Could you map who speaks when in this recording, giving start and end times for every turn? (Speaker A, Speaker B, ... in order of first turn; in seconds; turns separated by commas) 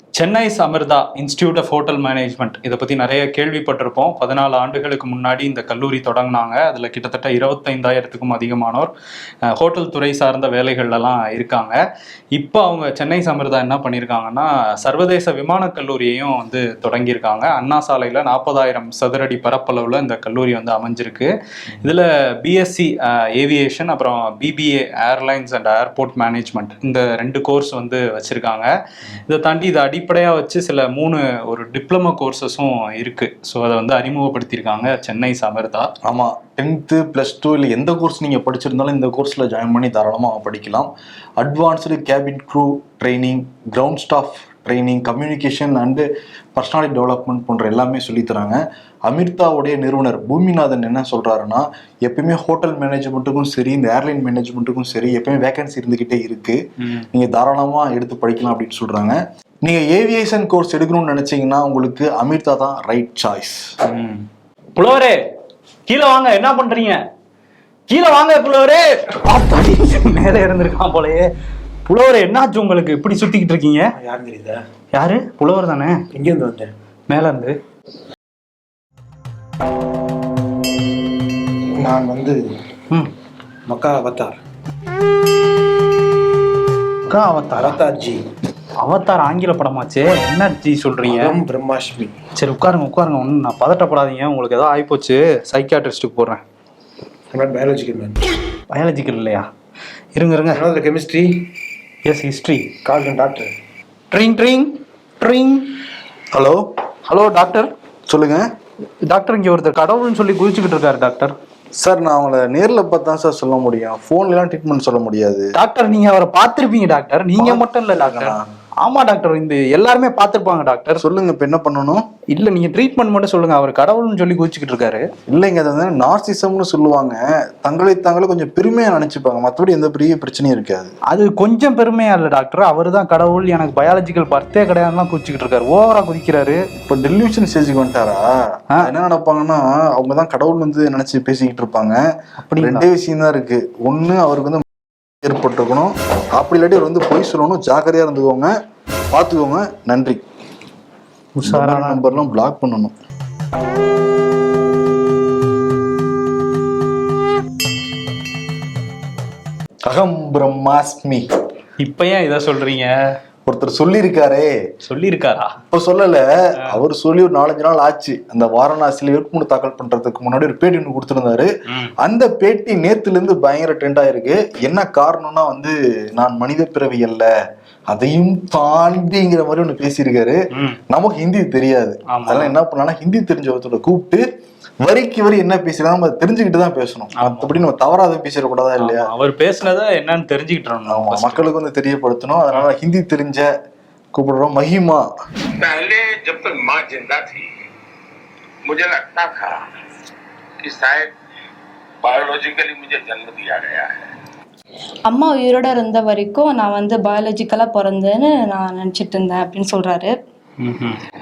Speaker A: 0.1-8.9, Speaker A: 9.5-11.8, Speaker A: 12.3-28.7, Speaker A: 29.3-35.9, Speaker B: 36.0-56.6, Speaker B: 57.1-63.7, Speaker A: 63.9-65.2, Speaker A: 65.9-67.0, Speaker A: 67.9-71.3, Speaker A: 71.9-73.9, Speaker C: 74.0-74.6, Speaker A: 74.9-76.0, Speaker C: 76.1-76.7, Speaker A: 77.1-77.5, Speaker C: 81.8-82.4, Speaker C: 83.7-84.3, Speaker A: 87.1-87.8, Speaker C: 87.5-88.2, Speaker A: 88.8-91.4, Speaker C: 91.0-92.1, Speaker A: 92.3-96.4, Speaker C: 97.3-98.2, Speaker A: 98.7-99.5, Speaker A: 100.1-100.6, Speaker C: 100.5-101.5, Speaker A: 102.0-102.7, Speaker C: 102.8-103.5, Speaker A: 104.1-105.7, Speaker B: 106.3-106.7, Speaker A: 107.1-107.7, Speaker B: 108.1-108.5, Speaker A: 109.1-111.3, Speaker B: 111.8-115.5, Speaker A: 115.5-121.0, Speaker B: 117.4-118.5, Speaker B: 121.0-122.0, Speaker A: 122.3-125.1, Speaker B: 125.3-130.9, Speaker A: 131.1-136.6, Speaker B: 136.8-142.0, Speaker A: 142.4-142.9, Speaker B: 142.6-144.6, Speaker B: 145.2-148.5, Speaker B: 149.1-150.2, Speaker A: 151.3-152.1, Speaker B: 151.4-152.9, Speaker B: 159.8-161.2, Speaker A: 161.8-162.9, Speaker B: 163.4-164.5, Speaker A: 164.8-165.5, Speaker B: 165.7-177.3, Speaker B: 177.9-184.2, Speaker A: 180.5-180.8, Speaker A: 182.1-182.5, Speaker B: 184.8-189.1, Speaker A: 187.2-187.6, Speaker A: 188.8-191.4, Speaker B: 190.9-193.5, Speaker B: 194.1-195.1, Speaker D: 195.6-197.5, Speaker D: 198.6-199.6, Speaker D: 200.6-201.1, Speaker D: 202.0-203.9, Speaker E: 205.1-210.2, Speaker A: 210.6-211.0